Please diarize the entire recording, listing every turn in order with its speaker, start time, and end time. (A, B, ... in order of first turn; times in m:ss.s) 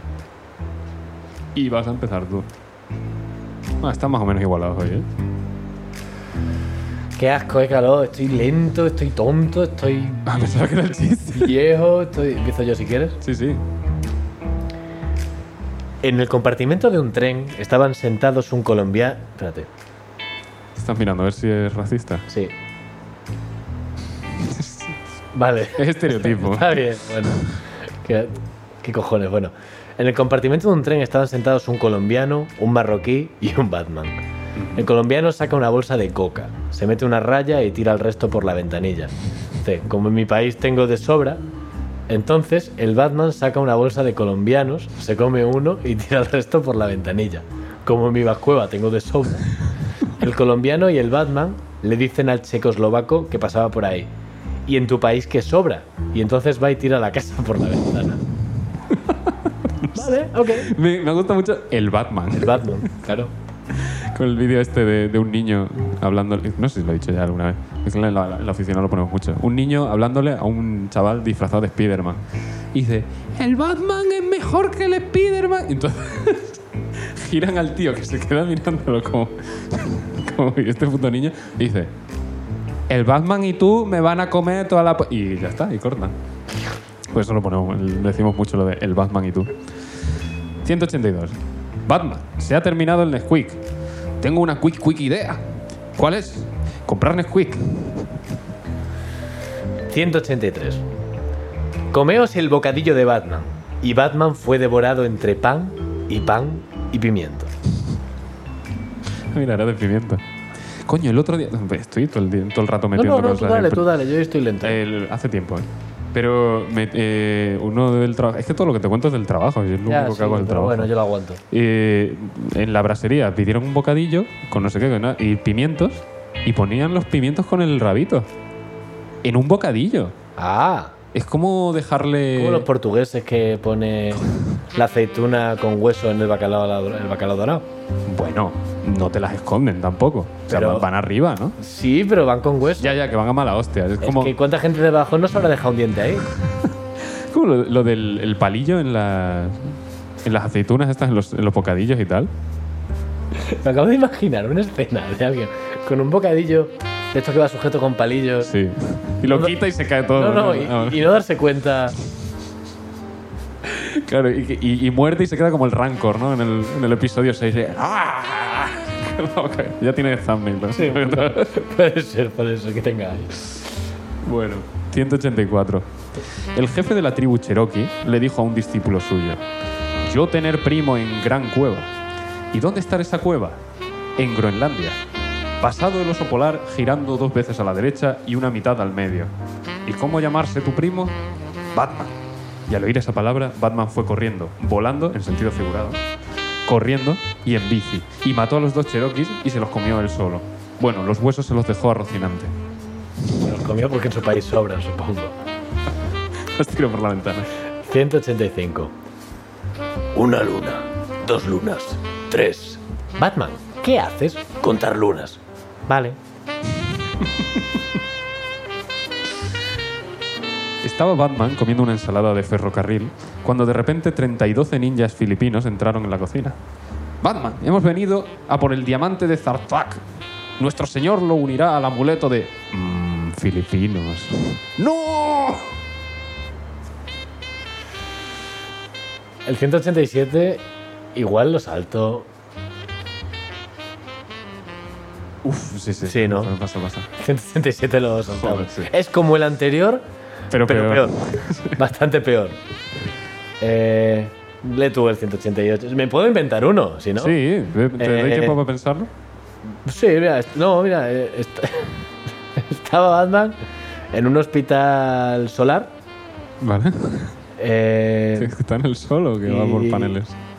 0:01.6-0:02.5 A
0:03.8-0:05.1 A
0:07.2-0:10.2 B
0:10.3-0:11.6 A
0:11.3-0:13.2 B
0:13.2-0:13.6 A
0:16.0-0:19.7 B
0:20.8-0:22.3 A
0:22.3-0:22.6 B
0:24.4-0:25.0 A
0:25.4-0:27.4 B
0:25.8-0:27.5 A
0:28.0-0:34.2 B
0:34.6-0:34.9 A
0:34.8-0:39.1 B
0:39.6-0:41.4 B
0:42.1-0:54.1 B
0:54.7-0:58.2 B
0:58.9-1:02.8 A
1:00.0-1:00.7 B
1:02.3-1:03.3 B
1:03.8-1:12.2 A
1:12.7-1:21.9 A
1:22.9-1:26.1 A
1:27.1-1:29.6 A
1:30.6-1:33.6 A
1:34.2-1:35.4 A
1:36.0-1:38.1 A
1:39.9-1:40.8 B
1:41.9-1:47.5 B
1:49.3-1:50.2 A
1:50.9-1:53.9 A
1:53.0-1:54.8 B
1:54.6-2:00.9 A
1:59.9-2:01.4 B
2:01.5-2:08.3 A
2:09.2-2:10.2 A
2:10.4-2:10.9 B
2:11.1-2:12.7 A
2:12.4-2:17.7 B
2:18.1-2:21.6 A
2:20.5-2:20.9 B
2:21.6-2:23.0 B
2:22.8-2:24.4 A
2:24.0-2:26.3 B
2:27.3-2:32.3 A
2:33.3-2:38.5 B
2:38.4-2:41.1 A
2:39.3-2:39.6 B
2:40.1-2:42.0 B
2:43.6-2:51.6 A
2:50.8-2:53.6 B
2:54.2-2:55.9 A
2:56.6-2:59.4 A
3:00.0-3:01.9 A
3:02.5-3:03.6 A
3:04.2-3:05.0 A
3:05.6-3:09.3 A
3:09.9-3:11.2 A
3:11.8-3:12.1 A
3:12.7-3:16.0 A
3:16.7-3:22.5 A
3:23.4-3:25.4 B
3:26.6-3:27.5 A
3:27.9-3:28.9 B
3:30.1-3:36.2 B
3:37.2-3:37.5 A
3:40.8-3:46.6 A
3:47.2-3:50.0 A
3:50.6-3:55.7 A
3:59.4-4:02.3 B
4:05.4-4:07.1 A
4:06.0-4:06.5 B
4:07.2-4:10.0 B
4:08.4-4:08.9 A
4:10.5-4:11.8 A
4:10.6-4:12.6 B
4:13.6-4:17.4 B
4:17.2-4:19.1 A
4:18.0-4:18.6 B
4:19.8-4:23.6 B
4:24.1-4:25.9 B
4:26.6-4:27.3 A
4:27.6-4:28.5 B
4:28.4-4:30.4 A
4:29.4-4:30.2 B